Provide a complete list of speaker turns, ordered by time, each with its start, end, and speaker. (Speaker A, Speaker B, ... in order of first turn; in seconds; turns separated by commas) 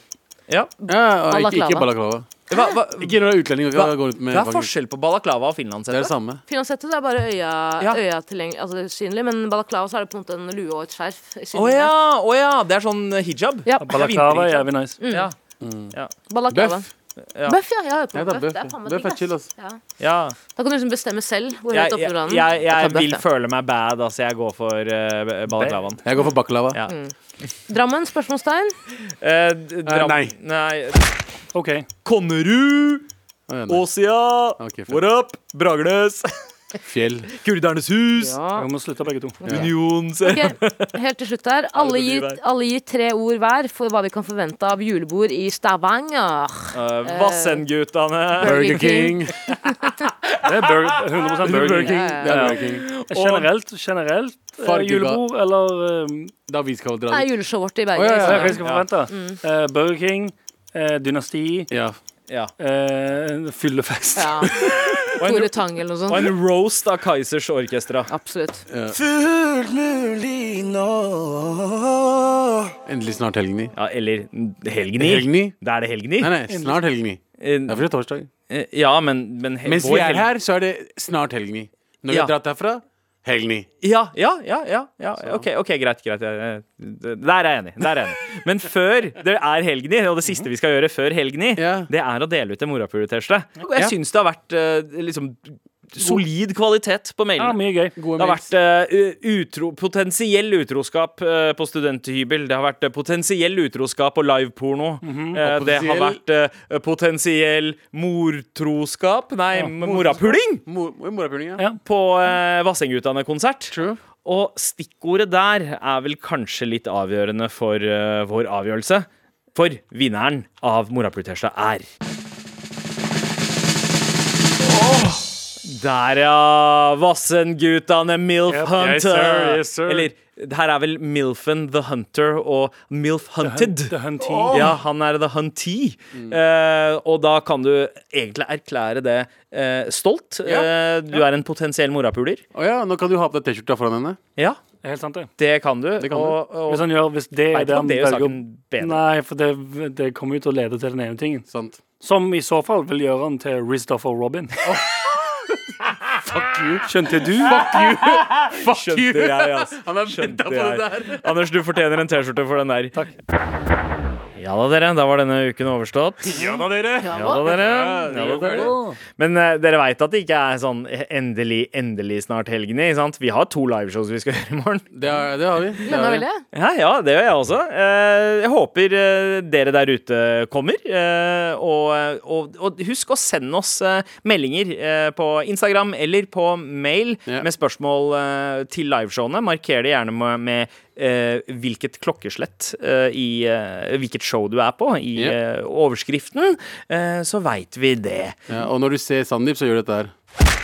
Speaker A: 0.8-1.9, Speaker B: 0.9-2.3, Speaker C: 2.5-6.1, Speaker B: 3.0-4.7, Speaker B: 5.9-6.4, Speaker A: 6.5-11.9, Speaker C: 11.5-15.3, Speaker A: 13.7-14.0, Speaker D: 13.8-15.0, Speaker A: 15.0-15.3, Speaker B: 15.6-15.9, Speaker A: 16.3-16.9, Speaker B: 16.5-16.8, Speaker C: 17.3-17.6, Speaker A: 17.5-19.8, Speaker B: 18.1-19.5, Speaker C: 20.0-20.4, Speaker A: 20.5-23.2, Speaker C: 21.7-26.0, Speaker D: 25.5-25.8, Speaker B: 26.0-26.8, Speaker A: 26.9-27.1, Speaker A: 27.7-28.7, Speaker C: 29.1-31.1, Speaker B: 29.8-30.3, Speaker D: 31.5-31.9, Speaker C: 32.0-33.1, Speaker B: 33.5-33.8, Speaker C: 33.7-36.3, Speaker B: 34.6-35.0, Speaker B: 36.8-37.3, Speaker C: 37.4-38.4, Speaker A: 38.1-38.7, Speaker D: 38.5-39.4, Speaker A: 39.4-47.6, Speaker B: 39.4-39.7, Speaker C: 39.5-40.9, Speaker C: 41.7-42.4, Speaker C: 46.7-48.6, Speaker A: 48.4-49.3, Speaker B: 48.4-49.4, Speaker C: 50.2-50.9, Speaker D: 50.4-56.3, Speaker C: 51.4-53.5, Speaker B: 51.5-52.9, Speaker A: 51.9-52.3, Speaker B: 54.6-55.2, Speaker B: 56.5-57.3, Speaker A: 57.1-59.4, Speaker B: 57.9-58.6, Speaker D: 58.2-61.7, Speaker C: 58.6-58.9, Speaker B: 61.7-62.0, Speaker D: 62.6-65.0, Speaker A: 64.2-66.3, Speaker C: 65.2-68.1, Speaker A: 68.1-68.6, Speaker B: 68.7-69.0, Speaker E: 69.2-71.4, Speaker B: 72.8-73.7, Speaker C: 73.7-76.3, Speaker B: 75.0-75.5, Speaker B: 76.2-78.3, Speaker D: 76.5-76.8, Speaker C: 77.4-77.8, Speaker C: 78.5-80.3, Speaker B: 79.6-83.7, Speaker C: 83.8-97.6, Speaker B: 85.2-85.4, Speaker B: 91.5-91.9, Speaker D: 97.4-98.0, Speaker B: 98.0-98.5, Speaker C: 98.1-110.6, Speaker D: 105.0-105.4, Speaker B: 105.3-106.2, Speaker B: 109.8-111.7, Speaker C: 111.8-121.8, Speaker B: 113.7-114.0, Speaker C: 125.6-133.9, Speaker B: 128.6-130.1, Speaker D: 133.4-134.7, Speaker B: 134.3-134.8, Speaker C: 134.5-142.4, Speaker B: 136.1-136.4, Speaker B: 140.4-140.7, Speaker B: 142.5-144.2, Speaker D: 144.8-145.3, Speaker C: 145.4-146.9, Speaker B: 146.0-146.4, Speaker D: 146.7-151.4, Speaker C: 147.5-149.0, Speaker B: 151.5-151.8, Speaker D: 152.0-154.5, Speaker B: 154.6-161.5, Speaker D: 156.8-157.6, Speaker C: 158.5-162.9, Speaker C: 164.4-166.5, Speaker B: 166.2-168.7, Speaker A: 167.0-167.4, Speaker C: 167.1-174.9, Speaker D: 168.1-169.0, Speaker B: 174.9-176.2, Speaker A: 175.8-176.4, Speaker C: 175.8-198.4, Speaker B: 198.5-200.1